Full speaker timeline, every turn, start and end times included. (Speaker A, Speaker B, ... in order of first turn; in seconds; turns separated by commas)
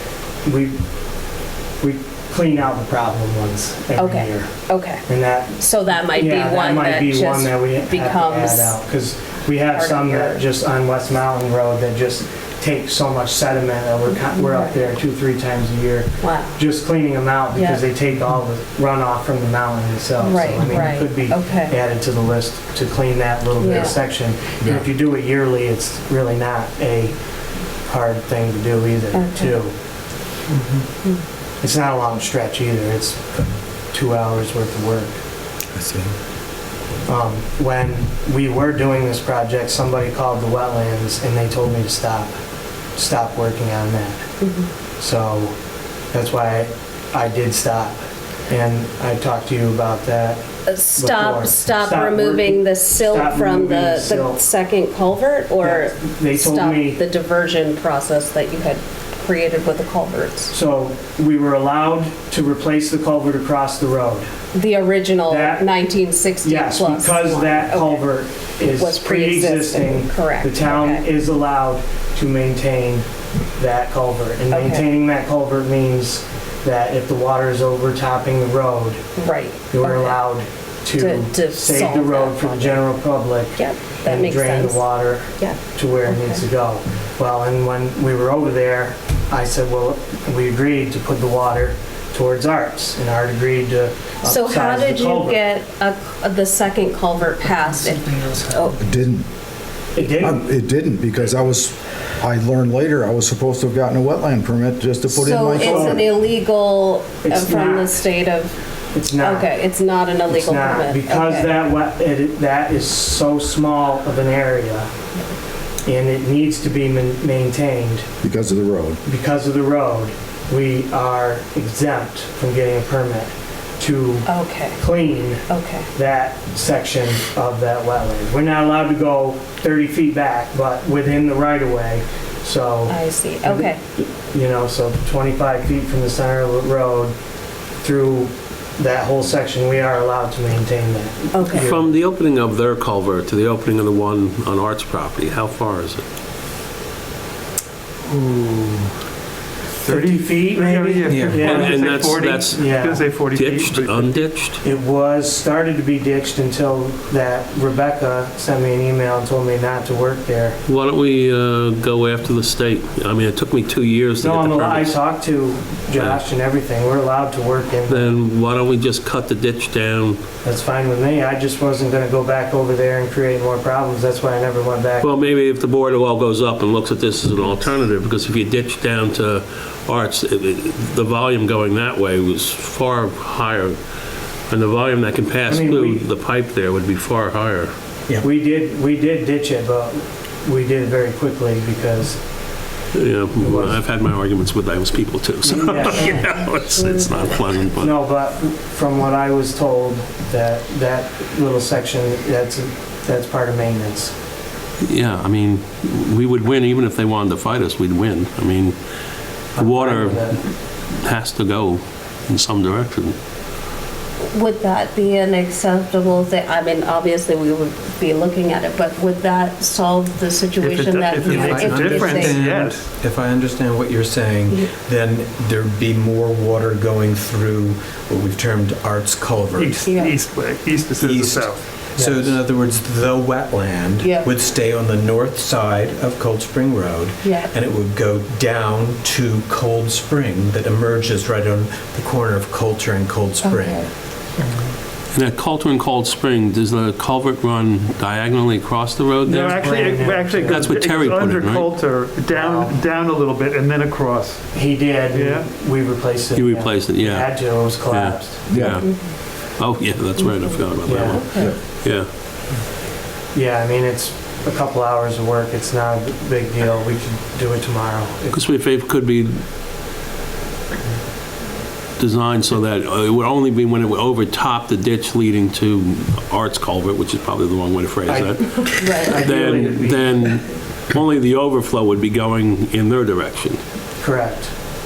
Speaker A: 0.4-0.8, Speaker A: 1.8-4.5, Speaker B: 4.0-5.0, Speaker A: 5.0-27.1, Speaker B: 5.6-8.8, Speaker B: 9.7-10.4, Speaker B: 14.3-14.9, Speaker B: 16.2-16.6, Speaker B: 17.5-17.8, Speaker B: 20.2-21.7, Speaker B: 23.6-24.0, Speaker A: 27.9-29.7, Speaker B: 29.1-29.6, Speaker C: 30.5-30.8, Speaker A: 31.6-35.2, Speaker C: 35.7-36.1, Speaker A: 37.0-42.3, Speaker A: 43.0-44.2, Speaker B: 44.4-44.7, Speaker A: 45.0-45.5, Speaker A: 46.1-50.4, Speaker B: 50.6-60.5, Speaker A: 51.0-54.4, Speaker A: 55.6-57.0, Speaker A: 60.5-64.3, Speaker B: 64.5-68.0, Speaker A: 65.3-65.7, Speaker A: 66.4-73.0, Speaker B: 68.7-71.0, Speaker A: 73.6-79.0, Speaker B: 74.5-74.9, Speaker B: 79.2-80.2, Speaker A: 79.7-95.4, Speaker B: 80.9-82.8, Speaker B: 83.5-86.4, Speaker B: 94.2-98.8, Speaker D: 98.8-99.2, Speaker A: 99.9-100.4, Speaker D: 100.0-106.0, Speaker B: 105.1-108.6, Speaker A: 105.6-106.0, Speaker A: 107.2-108.0, Speaker A: 108.9-109.5, Speaker B: 109.1-111.5, Speaker A: 110.3-114.9, Speaker A: 115.8-118.1, Speaker D: 118.2-119.0, Speaker A: 119.0-125.4, Speaker B: 124.2-124.8, Speaker B: 125.5-125.9, Speaker A: 125.9-137.1, Speaker B: 132.9-133.8, Speaker A: 137.8-141.8, Speaker B: 141.3-141.7, Speaker E: 141.5-146.0, Speaker C: 148.2-148.7, Speaker A: 149.9-153.1, Speaker F: 149.9-154.4, Speaker C: 151.0-151.5, Speaker E: 151.4-154.6, Speaker A: 154.6-160.6, Speaker E: 160.7-165.0, Speaker A: 164.2-168.2, Speaker E: 165.9-166.2, Speaker E: 167.9-170.2, Speaker A: 170.4-175.2, Speaker E: 175.0-183.8, Speaker E: 184.5-187.7, Speaker A: 185.5-186.1, Speaker A: 188.2-192.2, Speaker E: 192.9-198.0, Speaker A: 193.4-193.8, Speaker A: 195.5-196.2, Speaker B: 195.8-197.4, Speaker A: 197.8-204.1, Speaker E: 204.8-208.7, Speaker A: 209.5-210.4, Speaker E: 209.6-210.3, Speaker E: 210.9-213.2, Speaker B: 214.3-222.4, Speaker F: 220.6-222.8, Speaker C: 221.2-229.9, Speaker F: 229.5-231.6, Speaker B: 229.8-230.2, Speaker C: 231.0-243.8, Speaker A: 231.9-232.3, Speaker B: 234.0-234.3, Speaker B: 237.2-237.5, Speaker B: 243.4-243.9, Speaker E: 245.1-249.6, Speaker F: 249.2-254.4, Speaker A: 249.3-250.7, Speaker E: 250.4-251.7, Speaker A: 252.3-252.8, Speaker A: 254.5-258.4, Speaker F: 255.1-255.5, Speaker E: 256.3-262.1, Speaker D: 258.5-258.8, Speaker B: 258.8-259.1, Speaker B: 260.2-261.5, Speaker A: 260.8-261.4, Speaker A: 263.3-268.4, Speaker E: 268.3-269.4, Speaker E: 272.0-283.6, Speaker A: 278.1-280.2, Speaker B: 278.8-279.2, Speaker A: 284.0-284.5